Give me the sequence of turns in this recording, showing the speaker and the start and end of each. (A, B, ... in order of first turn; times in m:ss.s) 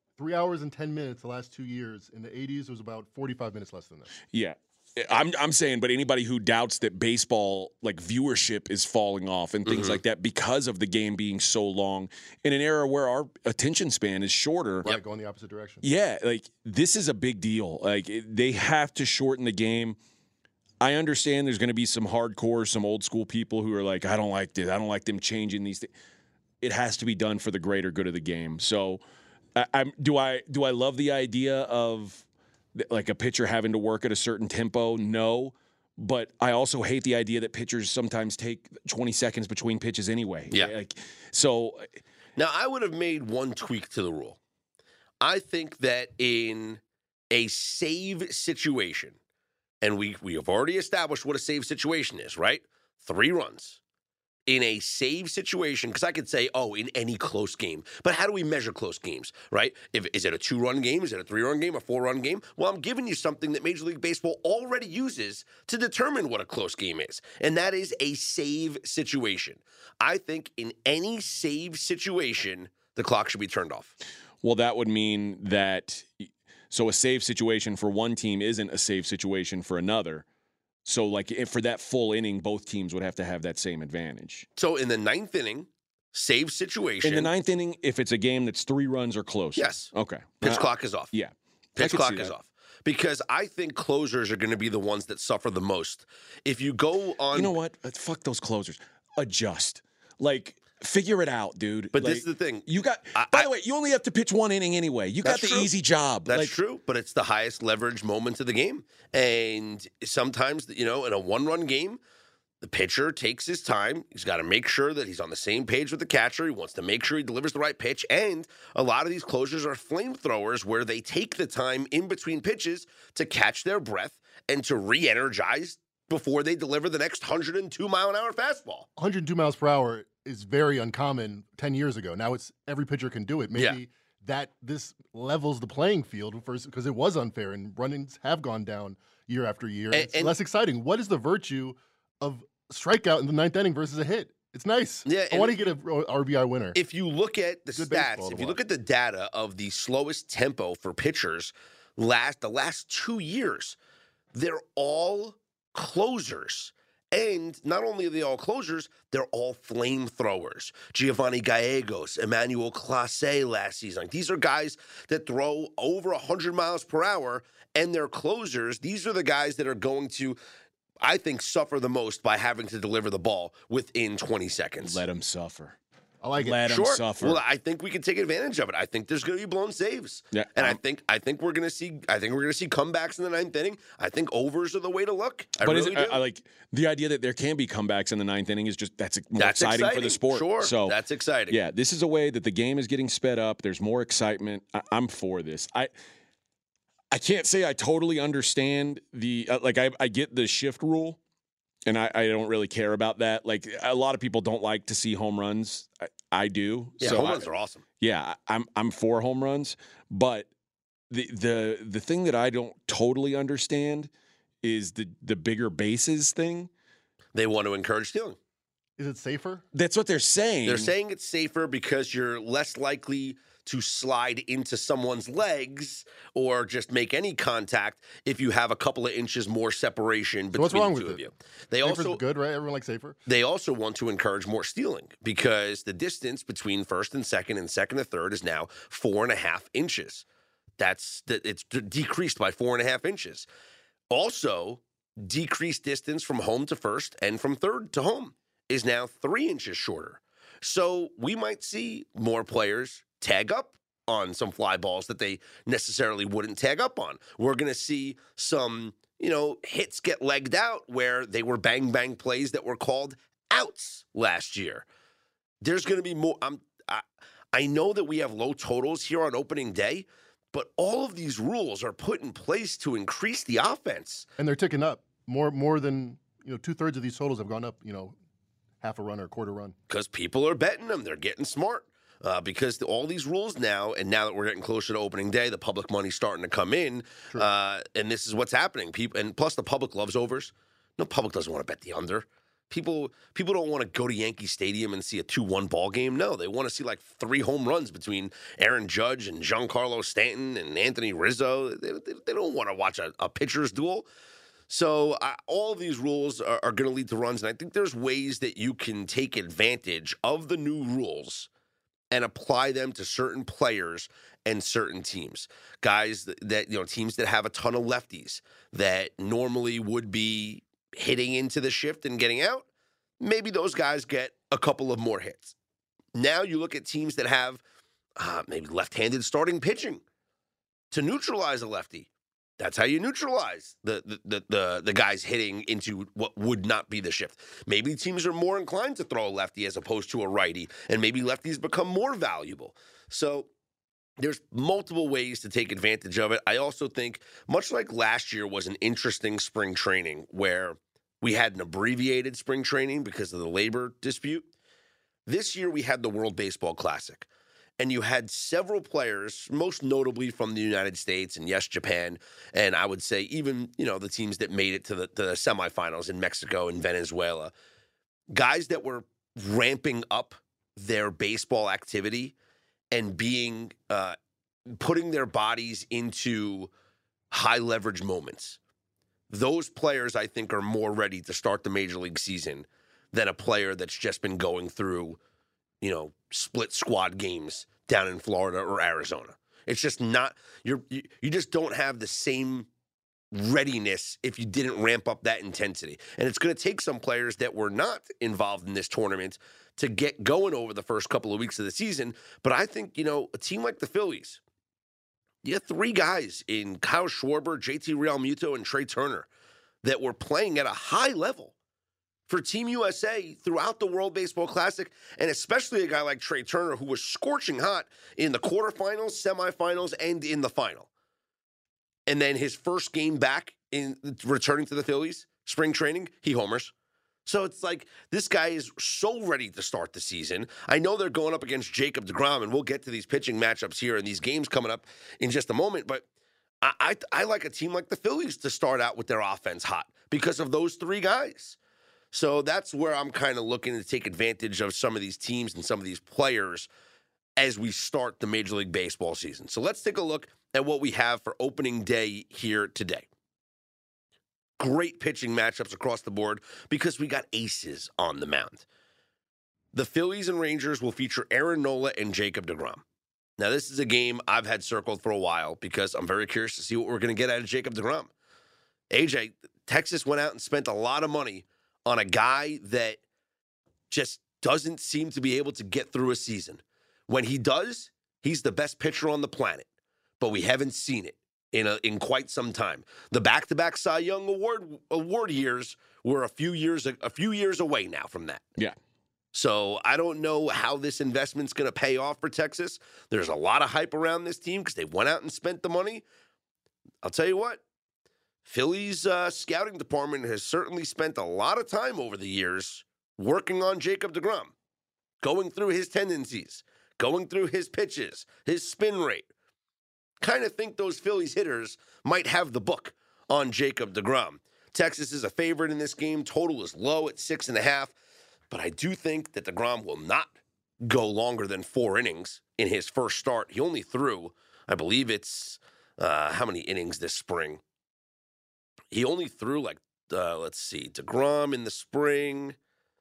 0:00.2-0:04.1 A
0:04.3-0:14.9 B
0:09.6-0:10.0 C
0:14.8-0:15.8 A
0:15.8-0:20.0 B
0:20.8-0:25.9 B
0:26.6-0:29.0 B
0:29.6-0:32.2 B
0:32.7-0:41.9 B
0:42.4-0:44.4 C
0:45.2-0:49.2 C
0:49.8-0:53.8 C
0:54.5-1:13.9 C
1:14.4-1:20.2 B
1:20.8-1:24.5 B
1:24.6-1:27.3 C
1:27.0-1:32.3 B
1:29.6-1:31.1 C
1:31.8-1:37.5 C
1:37.3-1:46.5 B
1:41.9-1:43.5 C
1:45.2-1:45.7 C
1:46.3-1:52.0 C
1:52.6-2:08.9 C
2:09.0-2:26.8 A
2:19.9-2:20.3 C
2:25.0-2:25.6 C
2:26.7-2:33.8 C
2:27.8-2:28.6 A
2:34.3-2:50.4 C
2:51.0-2:55.0 C
2:54.8-2:55.8 B
2:56.2-2:56.7 A
2:56.4-2:57.4 B
2:56.6-3:06.2 C
3:00.3-3:00.8 B
3:05.6-3:11.0 B
3:09.4-3:11.6 C
3:11.5-3:15.9 B
3:17.1-3:21.2 B
3:21.9-3:27.5 B
3:27.0-3:27.8 C
3:28.0-3:30.5 B
3:31.1-3:34.1 B
3:34.6-3:36.7 B
3:37.3-3:38.4 C
3:39.0-3:39.6 A
3:39.7-3:40.9 B
3:40.6-3:52.2 C
3:50.5-3:51.2 A
3:51.8-3:53.2 A
3:53.2-4:00.2 C
4:00.8-4:03.5 C
4:04.1-4:24.8 C
4:25.6-4:34.3 C
4:34.4-4:38.2 A
4:38.8-4:39.8 A
4:39.9-5:04.1 C
5:04.7-5:11.5 C
5:12.1-5:22.6 C
5:23.2-5:25.6 C
5:26.1-5:27.6 C
5:28.2-5:30.0 C
5:30.9-5:43.5 C
5:44.2-5:54.5 C
5:55.3-5:57.3 C
5:57.8-6:07.5 C
6:08.3-6:12.3 C
6:12.9-6:14.2 C
6:14.7-6:16.7 C
6:17.3-6:18.6 C
6:19.3-6:25.2 C
6:25.8-6:32.7 C
6:33.3-6:44.4 C
6:45.4-6:49.3 C
6:49.8-6:51.5 C
6:52.3-7:00.9 C
7:02.1-7:06.7 C
7:07.2-7:16.0 C
7:16.6-7:21.6 C
7:22.1-7:26.7 C
7:27.4-7:33.0 C
7:34.6-7:38.6 C
7:39.7-7:42.8 C
7:43.4-7:48.1 C
7:48.9-7:53.0 C
7:53.9-7:59.7 C
8:00.2-8:08.4 C
8:09.3-8:16.0 C
8:17.0-8:17.6 C
8:18.4-8:24.5 C
8:25.2-8:29.3 C
8:30.2-8:37.9 C
8:38.5-8:47.6 C
8:48.9-8:52.6 C